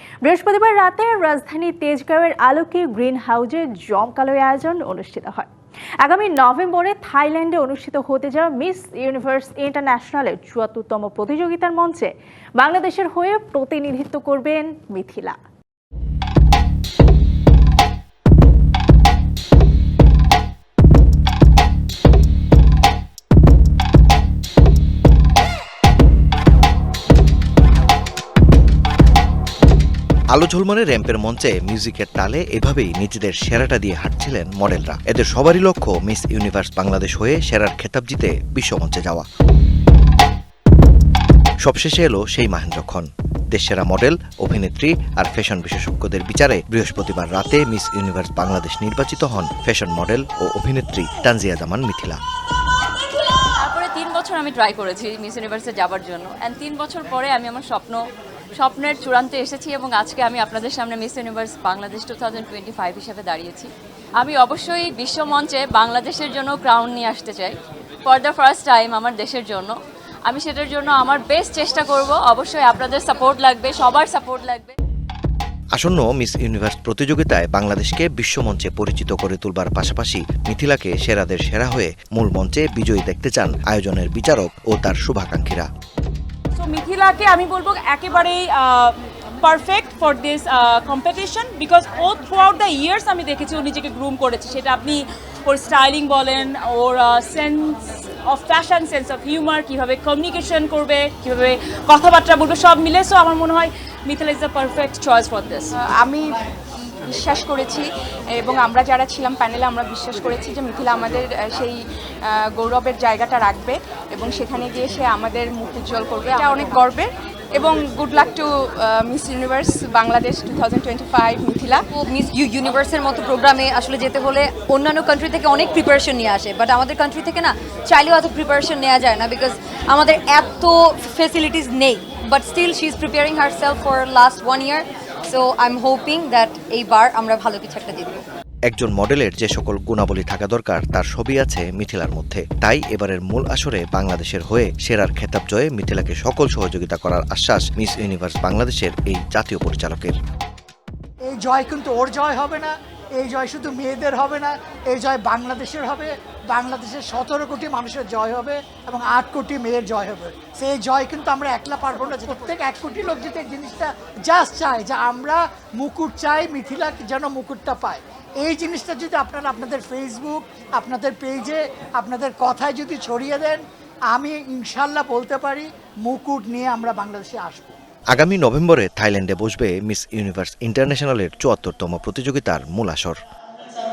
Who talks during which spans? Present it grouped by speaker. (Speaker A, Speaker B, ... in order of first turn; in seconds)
Speaker A: 0.2-5.5, 6.0-15.4
Speaker B: 30.3-39.3, 41.6-52.2, 75.8-85.7, 138.7-150.2, 178.1-183.2
Speaker C: 53.4-58.0, 58.5-69.7, 70.3-74.7
Speaker D: 86.6-105.7
Speaker E: 105.8-106.2, 107.1-107.9, 108.4-111.8, 112.5-121.8
Speaker F: 121.9-138.2
Speaker G: 151.2-177.8